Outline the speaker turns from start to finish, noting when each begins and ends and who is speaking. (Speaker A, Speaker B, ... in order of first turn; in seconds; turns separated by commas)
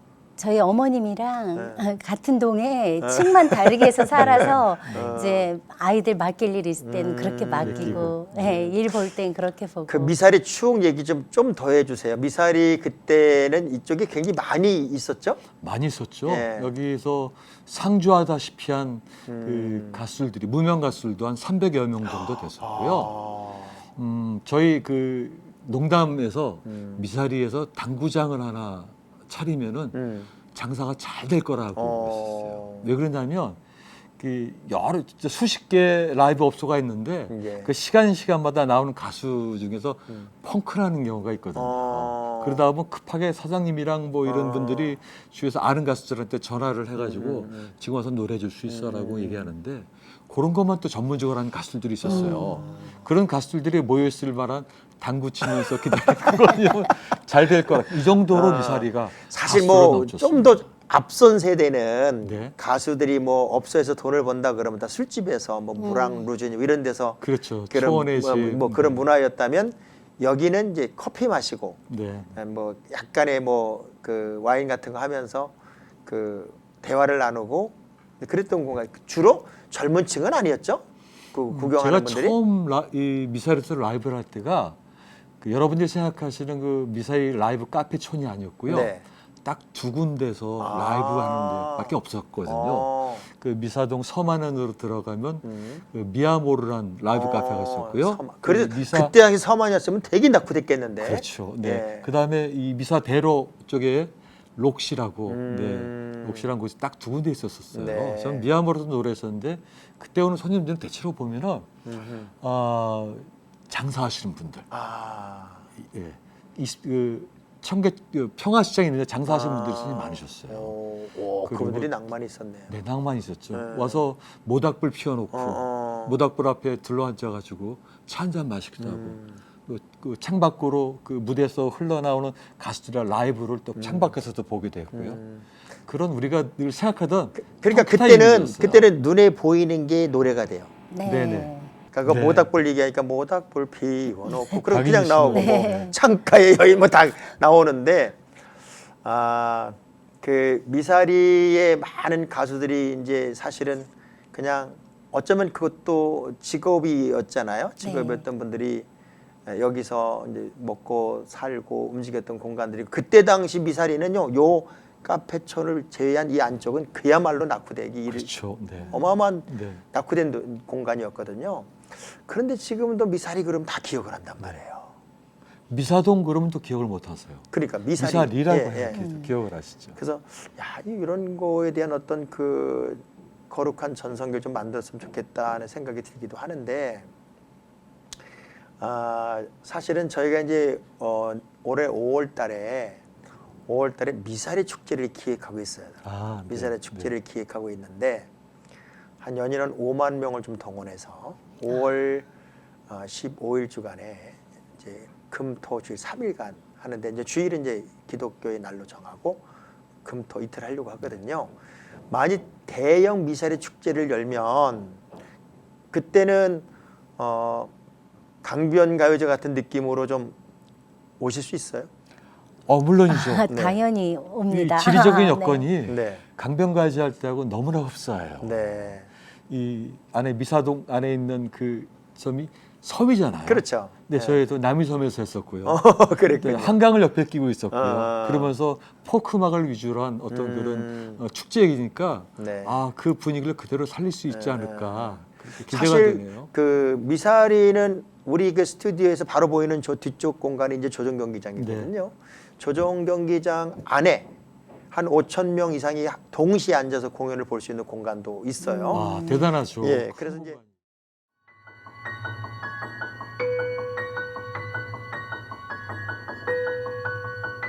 Speaker A: 0.4-10.1, Speaker B: 1.6-1.9, Speaker B: 3.0-5.5, Speaker C: 4.2-5.2, Speaker B: 6.8-8.8, Speaker C: 7.6-8.6, Speaker B: 9.9-15.4, Speaker C: 15.6-23.1, Speaker B: 16.2-16.7, Speaker B: 19.3-20.0, Speaker B: 22.1-23.8, Speaker C: 24.0-33.6, Speaker B: 26.7-27.1, Speaker B: 29.9-30.3, Speaker B: 31.8-32.9, Speaker C: 34.2-60.7, Speaker B: 37.3-37.7, Speaker B: 41.5-42.7, Speaker B: 44.2-45.0, Speaker B: 47.0-47.7, Speaker B: 48.7-49.5, Speaker A: 52.0-52.6, Speaker B: 52.1-53.0, Speaker B: 58.3-71.8, Speaker C: 62.2-62.5, Speaker A: 65.8-66.2, Speaker C: 67.2-69.0, Speaker C: 71.9-72.3, Speaker B: 72.3-75.5, Speaker B: 76.0-82.4, Speaker C: 81.5-84.8, Speaker C: 85.4-88.9, Speaker B: 88.7-89.0, Speaker C: 89.5-99.1, Speaker B: 90.6-93.2, Speaker B: 95.4-95.8, Speaker B: 97.1-102.1, Speaker C: 101.0-111.7, Speaker B: 105.3-106.4, Speaker B: 107.7-108.5, Speaker B: 111.9-112.3, Speaker C: 112.4-114.7, Speaker B: 114.7-115.7, Speaker C: 115.8-120.7, Speaker B: 119.3-122.8, Speaker C: 121.5-121.9, Speaker C: 122.7-135.2, Speaker B: 123.5-124.0, Speaker B: 125.3-126.2, Speaker B: 128.8-129.3, Speaker B: 133.8-134.1, Speaker B: 134.9-135.4, Speaker C: 135.9-138.9, Speaker B: 137.4-140.7, Speaker A: 140.9-141.7, Speaker C: 141.1-141.5, Speaker B: 141.9-148.2, Speaker C: 142.1-142.5, Speaker C: 144.7-145.9, Speaker A: 145.3-145.9, Speaker B: 149.0-158.9, Speaker A: 157.8-158.2, Speaker B: 159.5-168.3, Speaker C: 168.1-169.8, Speaker B: 168.9-174.9, Speaker C: 175.7-180.0, Speaker B: 177.5-179.1, Speaker A: 178.9-179.3, Speaker B: 180.0-187.1, Speaker B: 188.8-193.0, Speaker B: 193.7-198.3, Speaker C: 196.0-197.1, Speaker B: 199.2-202.3, Speaker B: 202.9-209.4, Speaker B: 210.0-211.5, Speaker B: 212.1-215.0, Speaker B: 215.9-216.7, Speaker B: 217.2-217.7, Speaker B: 218.4-220.4, Speaker B: 221.2-221.9, Speaker C: 222.7-223.5, Speaker A: 223.1-225.7, Speaker B: 223.5-223.8, Speaker C: 224.5-228.7, Speaker B: 225.9-226.2, Speaker B: 228.4-229.1, Speaker C: 229.5-235.8, Speaker B: 233.5-234.4, Speaker B: 235.7-236.8, Speaker C: 236.4-246.5, Speaker B: 237.7-238.5, Speaker B: 240.3-241.2, Speaker B: 242.4-242.8, Speaker B: 244.3-254.3, Speaker C: 251.6-251.9, Speaker B: 254.9-260.6, Speaker A: 258.6-259.5, Speaker C: 258.9-260.7